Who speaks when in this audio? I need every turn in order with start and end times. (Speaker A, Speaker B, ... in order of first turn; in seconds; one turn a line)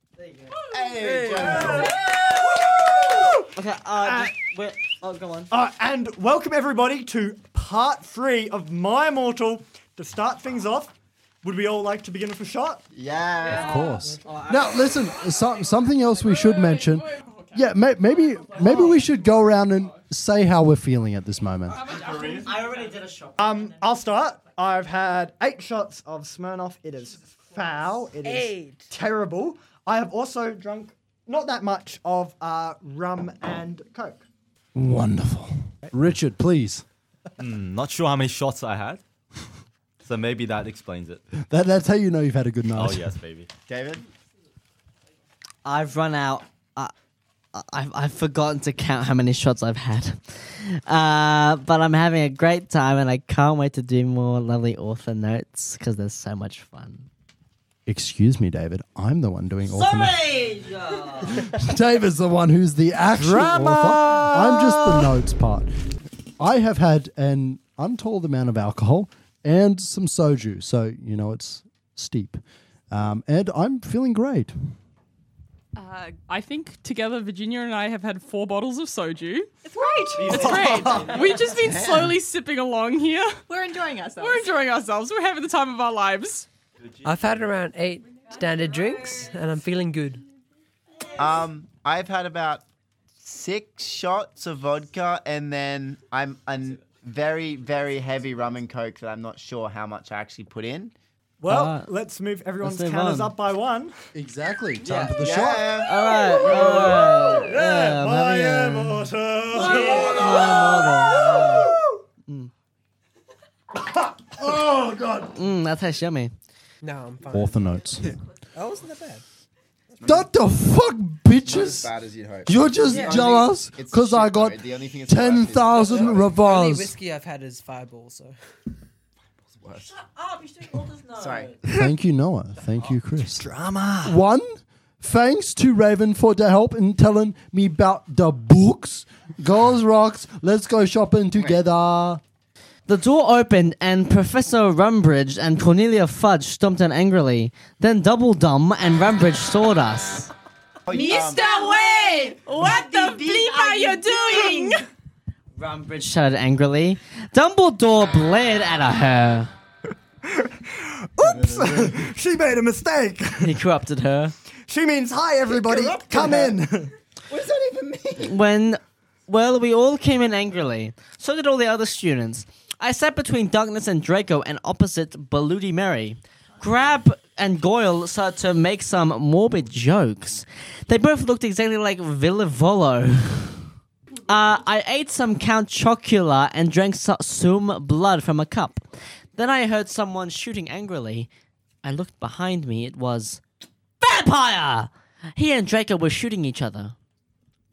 Speaker A: 0.7-2.0
Speaker B: 0.9-1.9
Speaker C: 1.7-2.0
Speaker C: 2.8-3.2
Speaker D: 3.5-5.5
Speaker C: 4.0-4.3
Speaker C: 5.5-12.8
Speaker A: 12.9-13.9
Speaker D: 13.5-14.8
Speaker E: 13.5-21.8
Speaker F: 21.8-22.4
Speaker G: 21.9-22.5
Speaker D: 22.3-23.4
Speaker C: 23.4-34.2
Speaker B: 28.2-28.9
Speaker E: 34.8-36.8
Speaker G: 37.4-39.0
Speaker G: 40.0-41.2
Speaker E: 41.4-43.1
Speaker G: 42.7-43.5
Speaker A: 43.7-44.0
Speaker D: 45.6-46.9
Speaker D: 47.5-57.1
Speaker E: 57.9-60.2
Speaker D: 59.7-61.4
Speaker E: 61.3-65.7
Speaker C: 63.2-65.1
Speaker E: 66.4-74.7
Speaker F: 75.8-83.4
Speaker H: 79.7-80.2
Speaker G: 80.2-81.3
Speaker C: 80.3-81.2
Speaker A: 81.4-82.2
Speaker H: 83.5-84.5
Speaker F: 84.2-86.5
Speaker G: 86.8-87.2
Speaker B: 87.0-90.2
Speaker A: 91.2-92.6
Speaker A: 93.2-100.9
Speaker C: 101.4-103.9
Speaker D: 101.5-101.9
Speaker D: 102.6-103.3
Speaker E: 104.1-105.9
Speaker D: 104.8-105.2
Speaker A: 105.2-106.8
Speaker D: 105.8-111.7
Speaker C: 106.1-111.8
Speaker C: 114.2-115.3
Speaker D: 115.3-116.3
Speaker B: 116.8-119.2
Speaker E: 117.3-118.1
Speaker A: 120.0-120.3
Speaker E: 120.0-121.9
Speaker A: 121.4-126.3
Speaker E: 122.5-126.9
Speaker B: 122.9-123.2
Speaker B: 126.3-128.3
Speaker A: 129.6-129.9
Speaker D: 130.1-131.5
Speaker A: 131.2-131.6
Speaker E: 131.6-133.4
Speaker G: 133.4-134.0
Speaker C: 133.5-134.1
Speaker E: 134.0-142.2
Speaker D: 142.9-150.3
Speaker A: 150.8-151.4
Speaker F: 150.9-154.8
Speaker H: 150.9-152.7
Speaker H: 153.4-153.9
Speaker D: 155.6-159.5
Speaker C: 160.4-163.5
Speaker A: 161.2-162.1
Speaker D: 163.4-164.3
Speaker C: 164.7-166.9
Speaker A: 165.5-166.6
Speaker A: 167.3-168.4
Speaker D: 168.2-183.6
Speaker D: 184.3-188.8
Speaker D: 189.3-191.3
Speaker D: 191.8-193.4
Speaker D: 194.0-196.9